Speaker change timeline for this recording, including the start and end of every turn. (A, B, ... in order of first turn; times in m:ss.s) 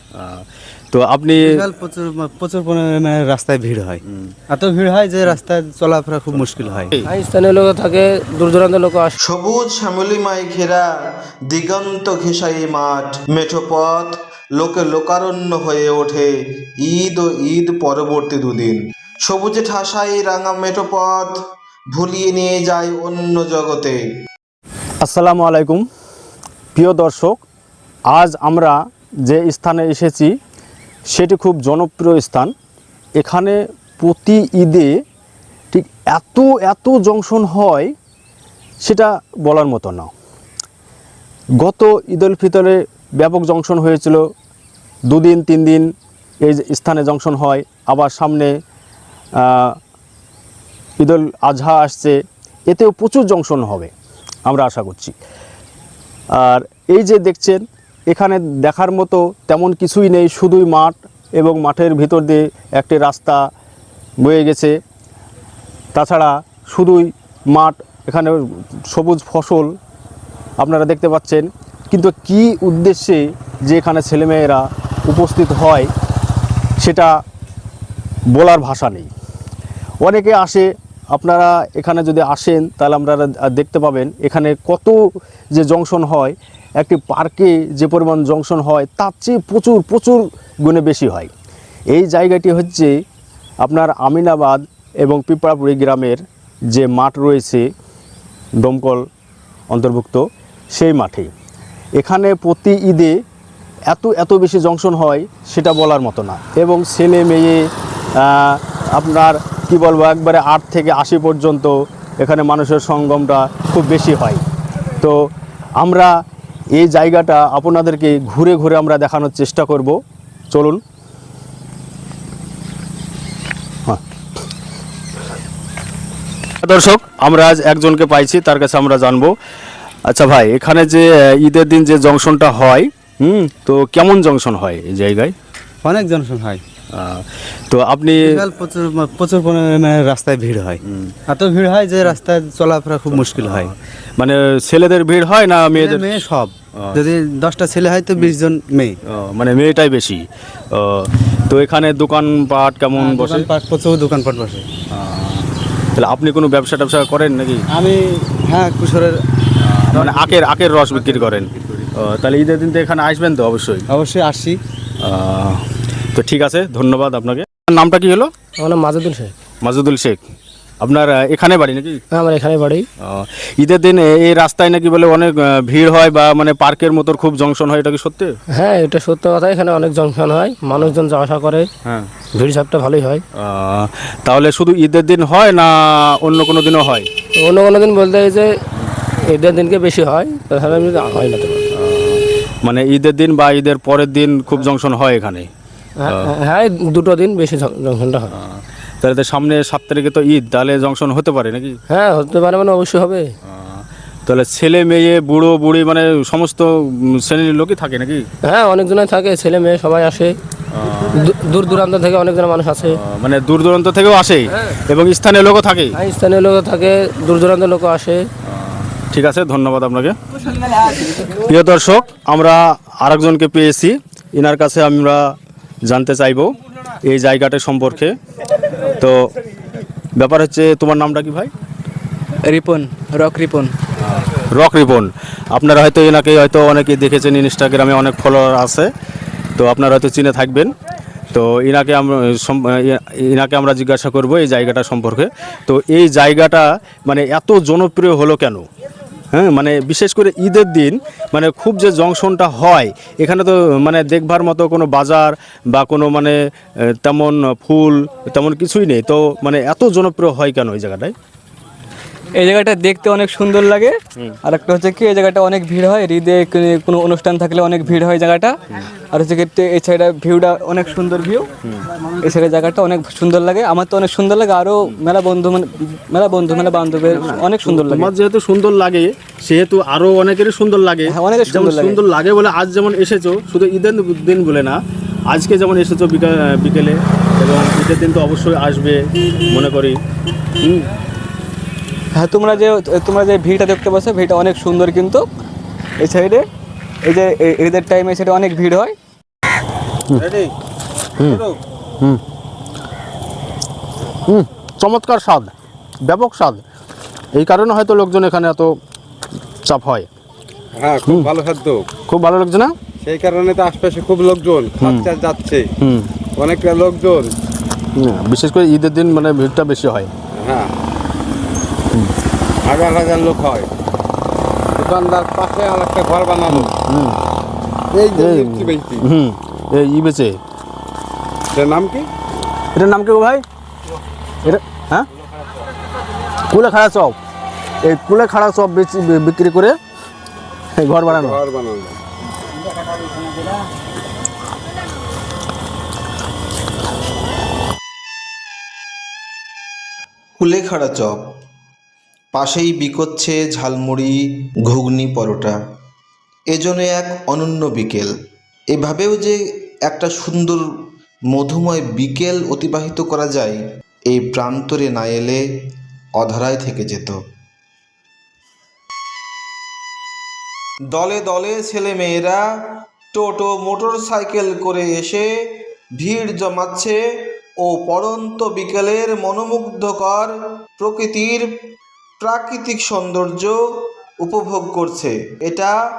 0:00.1-0:01.6 A
0:01.4-0:06.9 B
0:04.0-0:04.3 A
0:06.3-0:07.1 A
0:07.0-0:09.1 C
0:09.2-0:10.9 D
0:11.5-0:21.3 D
0:21.9-0:24.0 D
0:25.0-0:25.8 A
0:26.7-0:27.4 A
0:28.1-0:30.3 A
0:31.1-0:32.5 A
0:33.2-0:34.9 A
0:35.7-0:37.9 A
0:38.8-0:40.1 A
0:41.6-0:44.2 A
0:45.1-0:45.9 A
0:46.4-0:48.5 A
0:49.4-0:49.8 A
0:51.0-0:52.2 A
0:52.7-0:53.9 A
0:54.4-0:55.1 A
0:56.3-1:03.4 A
1:04.2-1:04.7 A
1:05.9-1:09.7 A
1:10.6-1:15.9 A
1:16.8-1:17.1 A
1:18.3-1:19.1 A
1:20.0-1:25.0 A
1:25.5-1:31.3 A
1:31.9-1:32.9 A
1:33.6-1:37.6 A
1:38.6-1:39.0 A
1:39.7-1:41.3 A
1:42.0-1:43.2 A
1:43.9-1:47.6 A
1:48.2-1:54.4 A
1:55.8-1:56.1 A
1:56.7-2:00.0 A
2:00.5-2:00.8 A
2:06.6-2:09.3 A
2:10.0-2:15.3 A
2:15.8-2:16.6 B
2:16.9-2:18.4 A
2:18.2-2:23.7 B
2:20.8-2:21.1 A
2:23.1-2:26.2 A
2:25.7-2:29.0 B
2:29.0-2:33.5 A
2:33.0-2:34.6 B
2:34.9-2:37.6 A
2:37.7-2:39.2 B
2:39.6-2:43.8 A
2:39.9-2:41.0 B
2:43.9-2:44.6 B
2:45.0-2:48.3 A
2:48.6-2:49.3 C
2:49.6-2:50.2 A
2:50.8-2:52.0 A
2:52.1-2:52.9 C
2:53.0-2:58.3 A
2:58.5-3:01.7 C
3:01.8-3:02.1 A
3:02.3-3:03.2 C
3:03.4-3:07.1 A
3:07.4-3:08.5 C
3:09.3-3:11.6 C
3:11.7-3:15.5 A
3:16.0-3:18.3 C
3:16.0-3:16.3 A
3:18.3-3:21.8 A
3:21.9-3:23.3 C
3:23.4-3:28.2 A
3:28.4-3:30.4 C
3:30.7-3:31.2 A
3:31.1-3:33.0 C
3:32.9-3:36.0 A
3:35.9-3:38.3 C
3:38.4-3:45.2 A
3:45.8-3:46.5 A
3:47.0-3:48.2 A
3:48.8-3:49.3 A
3:50.2-3:51.5 A
3:52.4-3:53.7 E
3:54.0-3:58.9 A
3:59.6-4:00.7 A
4:01.3-4:08.6 A
4:09.3-4:21.1 A
4:22.3-4:28.6 E
4:29.1-4:31.5 E
4:32.2-4:38.1 E
4:37.1-4:44.8 A
4:41.1-4:42.0 E
4:45.3-4:50.0 A
4:52.1-4:55.2 E
4:56.0-4:56.4 E
4:57.0-4:58.9 E
5:00.2-5:00.5 F
5:01.2-5:01.4 A
5:04.2-5:05.5 A
5:06.0-5:06.6 A
5:07.3-5:08.7 A
5:09.6-5:10.1 A
5:10.8-5:11.8 F
5:11.1-5:11.3 A
5:12.1-5:12.7 A
5:13.0-5:15.6 F
5:14.8-5:15.1 A
5:15.8-5:16.1 A
5:16.4-5:17.3 F
5:18.0-5:20.1 A
5:20.4-5:20.7 F
5:22.6-5:23.7 F
5:24.8-5:26.7 F
5:26.5-5:27.2 A
5:27.9-5:29.0 F
5:28.1-5:30.4 A
5:31.5-5:32.1 F
5:32.7-5:33.4 A
5:34.4-5:35.1 A
5:36.5-5:37.2 A
5:37.8-5:39.8 A
5:40.8-5:41.4 A
5:41.1-5:42.0 F
5:50.4-5:51.2 D
5:52.3-5:55.6 D
5:56.5-5:58.1 D
5:58.7-6:00.6 D
6:01.3-6:05.4 D
6:06.2-6:07.2 D
6:10.9-6:12.4 D
6:13.1-6:15.3 D
6:16.0-6:17.0 D
6:17.6-6:21.5 D
6:22.2-6:23.5 D
6:24.2-6:25.7 D